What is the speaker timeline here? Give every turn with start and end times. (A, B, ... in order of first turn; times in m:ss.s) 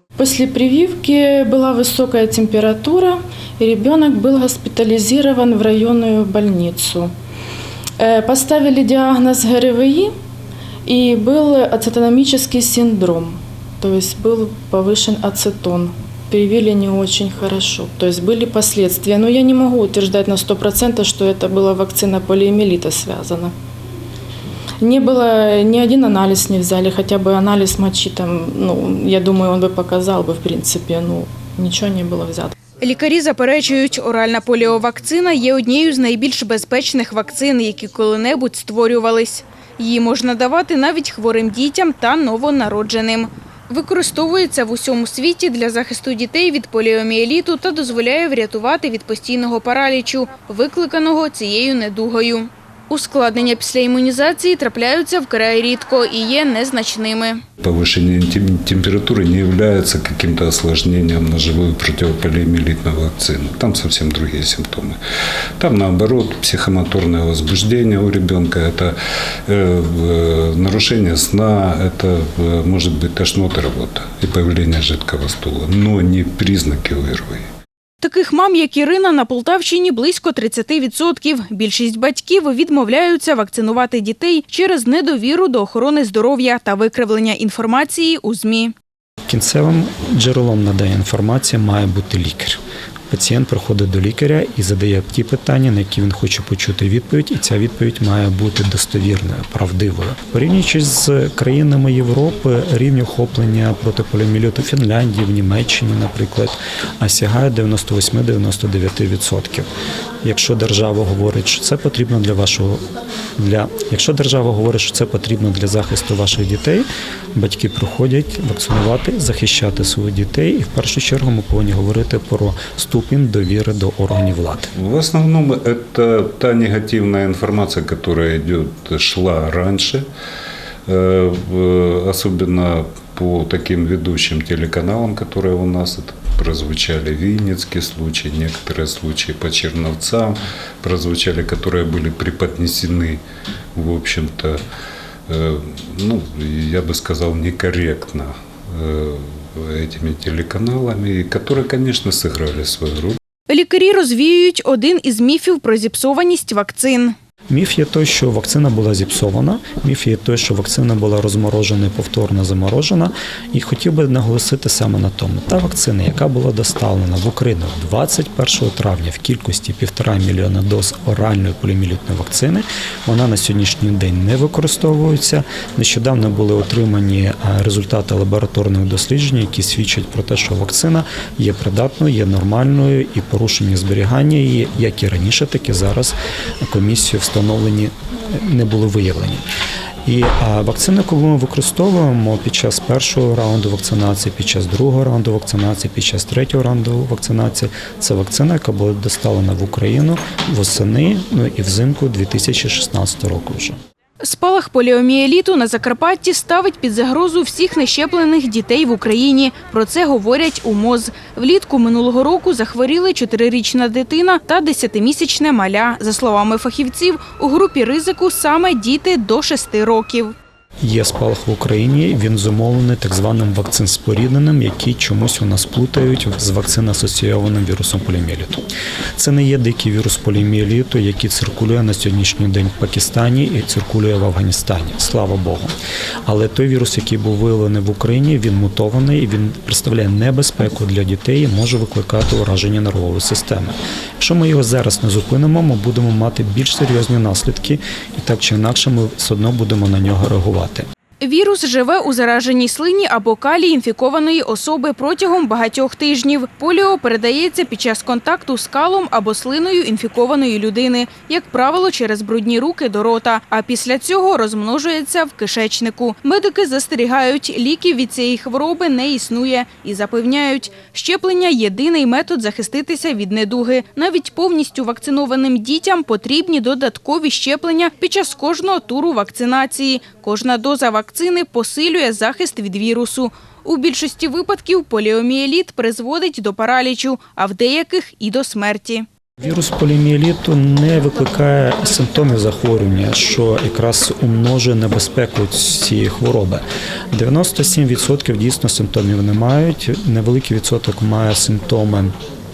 0:00.2-0:07.1 A
0:08.0-0:10.1 A
0:10.9-0:23.5 A
0:24.8-0:32.6 A
0:32.8-0:57.4 B
0:57.6-1:05.0 C
1:05.6-1:09.0 C
1:09.5-1:17.5 C
1:18.0-1:28.7 B
1:29.3-1:49.7 D
1:50.2-1:52.8 D
1:53.4-2:04.7 D
2:04.8-2:10.0 C
2:10.9-2:23.2 C
2:23.8-2:24.6 C
2:25.3-2:33.2 C
2:33.5-2:37.2 B
2:37.5-3:09.4 D
3:10.0-3:23.8 D
3:24.2-3:40.4 B
3:40.8-4:10.9 D
4:11.2-4:49.1 B
4:49.4-5:02.2 D